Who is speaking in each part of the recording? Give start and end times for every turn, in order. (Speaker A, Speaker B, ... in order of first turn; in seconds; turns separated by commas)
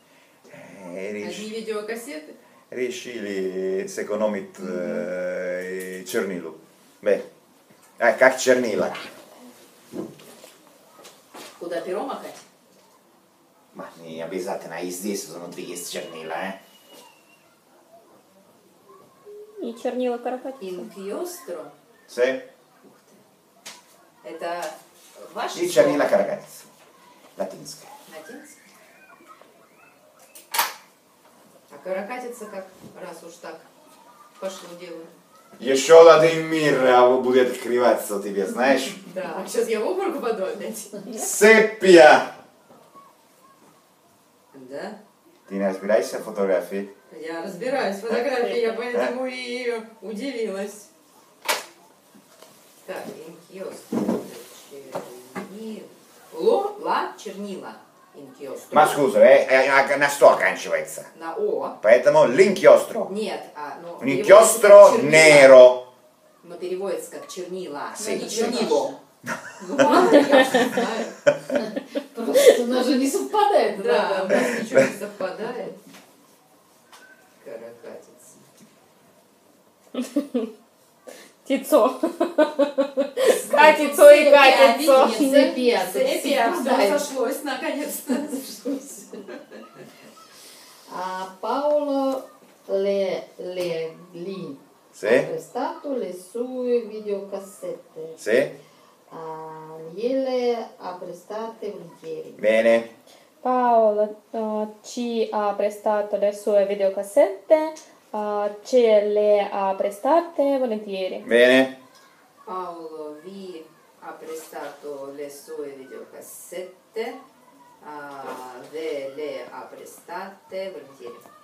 Speaker A: 0.5-1.5, Speaker B: 1.2-2.4, Speaker A: 2.7-7.2, Speaker A: 8.0-9.1, Speaker B: 11.6-12.4, Speaker A: 13.7-16.6, Speaker C: 19.6-20.9, Speaker B: 20.6-21.7, Speaker A: 22.1-22.4, Speaker B: 22.8-23.2, Speaker B: 24.2-26.1, Speaker A: 25.5-26.7, Speaker A: 27.4-27.9, Speaker B: 28.1-28.6, Speaker B: 31.7-33.7, Speaker B: 34.4-35.1, Speaker A: 35.6-39.0, Speaker B: 39.0-41.1, Speaker A: 41.1-42.3, Speaker B: 44.5-45.0, Speaker A: 45.5-46.9, Speaker B: 47.1-50.9, Speaker C: 48.4-48.8, Speaker B: 52.8-59.0, Speaker A: 58.7-61.1, Speaker B: 61.1-61.8, Speaker A: 61.8-63.1, Speaker B: 63.1-65.6, Speaker A: 64.0-65.9, Speaker B: 66.4-68.9, Speaker A: 67.9-68.7, Speaker D: 68.0-69.0, Speaker A: 69.2-70.1, Speaker B: 69.6-71.2, Speaker C: 69.8-70.8, Speaker D: 71.5-74.5, Speaker B: 73.7-75.8, Speaker A: 74.3-74.9, Speaker B: 77.4-78.4, Speaker C: 79.9-80.5, Speaker C: 81.4-85.6, Speaker B: 83.3-89.6, Speaker D: 84.8-87.1, Speaker D: 90.9-98.2, Speaker A: 94.9-95.3, Speaker A: 98.2-98.5, Speaker D: 99.1-102.5, Speaker A: 102.4-102.9, Speaker C: 103.4-111.3, Speaker A: 111.2-111.8, Speaker B: 112.4-117.2, Speaker B: 117.8-121.2